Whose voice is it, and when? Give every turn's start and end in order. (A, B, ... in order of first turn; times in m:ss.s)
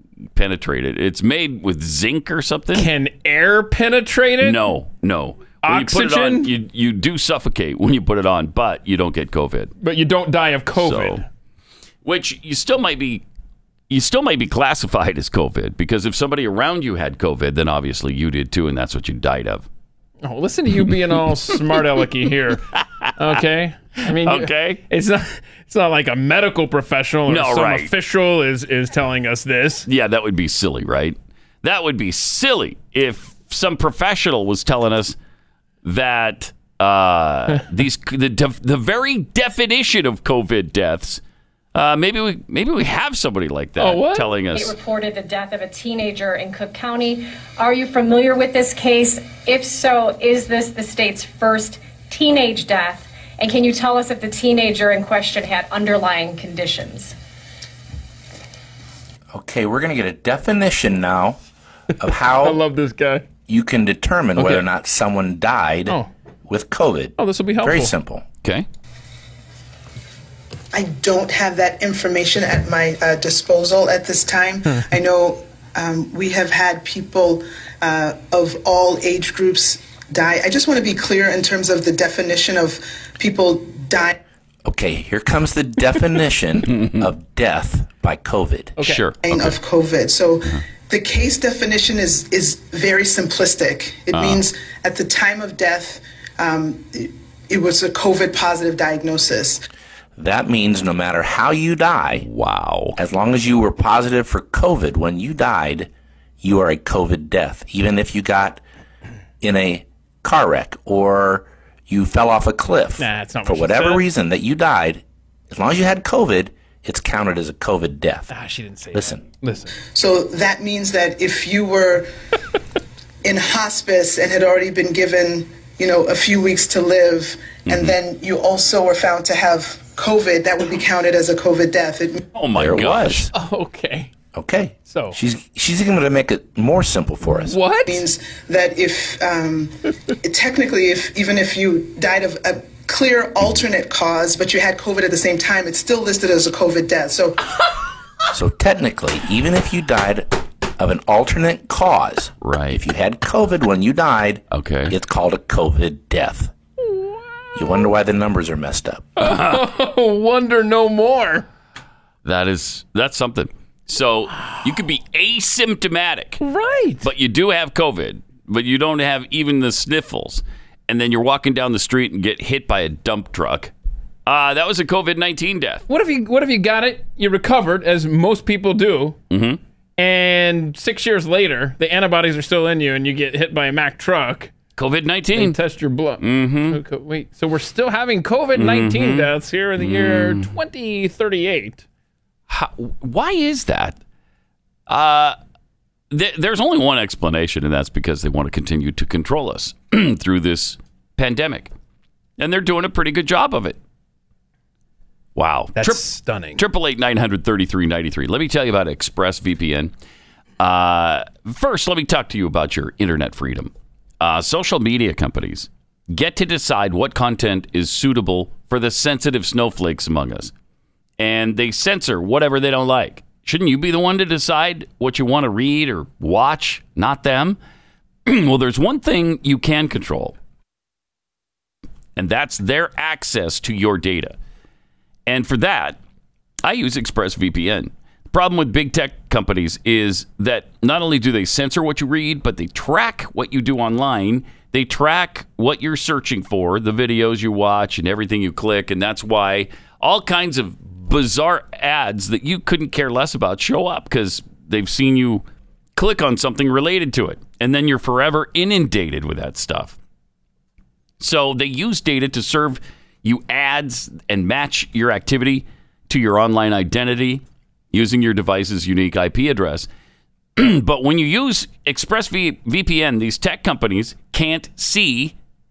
0:00.3-0:02.9 A
0:02.7-0:04.6 B
0:04.4-0:09.7 A
0:05.6-0:06.5 B
0:09.8-0:11.2 B
0:10.8-0:11.2 A
0:12.0-0:13.2 A
0:13.9-0:19.7 A
0:20.2-0:22.6 B
0:20.8-0:22.0 A
0:22.7-0:23.4 A
0:23.2-0:29.9 B
0:24.1-0:24.8 A
0:27.3-0:27.9 A
0:29.9-0:35.2 A
0:35.8-0:41.2 A
0:41.7-0:44.7 A
0:43.8-0:44.3 B
0:44.5-0:57.1 C
0:59.3-1:01.4 D
1:02.0-1:02.6 D
1:02.3-1:03.2 B
1:03.5-1:08.2 D
1:04.4-1:04.6 B
1:07.2-1:07.9 B
1:10.7-1:24.2 E
1:24.6-1:28.7 D
1:26.7-1:27.1 A
1:28.8-1:29.0 B
1:28.8-1:29.6 A
1:29.2-1:39.6 E
1:34.1-1:34.4 A
1:40.2-1:42.2 D
1:42.2-1:43.0 A
1:43.0-1:45.9 D
1:46.4-1:48.6 D
1:49.4-1:58.3 D
1:53.0-1:54.0 B
1:58.3-1:59.8 B
1:58.9-1:59.2 D
1:59.9-2:02.1 E
2:03.2-2:12.2 E
2:07.6-2:07.9 A
2:12.3-2:13.3 A
2:12.5-2:13.3 D
2:13.3-2:14.1 B
2:14.3-2:17.6 D
2:14.9-2:15.2 B
2:17.4-2:18.0 B
2:17.9-2:27.6 E
2:28.3-2:36.5 D
2:32.4-2:32.8 A
2:34.5-2:34.9 A
2:37.5-2:39.1 D
2:39.2-2:41.5 B
2:39.2-2:39.6 A
2:42.2-2:46.4 A
2:46.4-2:47.1 B
2:47.0-2:53.7 A
2:54.2-2:55.8 A
2:55.9-2:59.2 B
2:59.3-2:59.6 A
3:00.0-3:04.5 B
3:04.8-3:05.6 A
3:05.3-3:11.8 B
3:06.2-3:06.8 A
3:08.6-3:10.5 A
3:12.5-3:14.0 A
3:14.9-3:15.4 A
3:16.1-3:21.7 A
3:22.4-3:23.8 A
3:25.3-3:26.0 A
3:25.8-3:26.6 B
3:26.6-3:29.9 A
3:30.6-3:40.5 A
3:41.2-3:47.6 A
3:48.2-3:50.4 A
3:52.2-3:54.4 A
3:55.3-3:56.0 A
3:56.6-4:15.4 A
4:16.0-4:20.0 A
4:21.2-4:29.9 A
4:30.6-4:35.3 A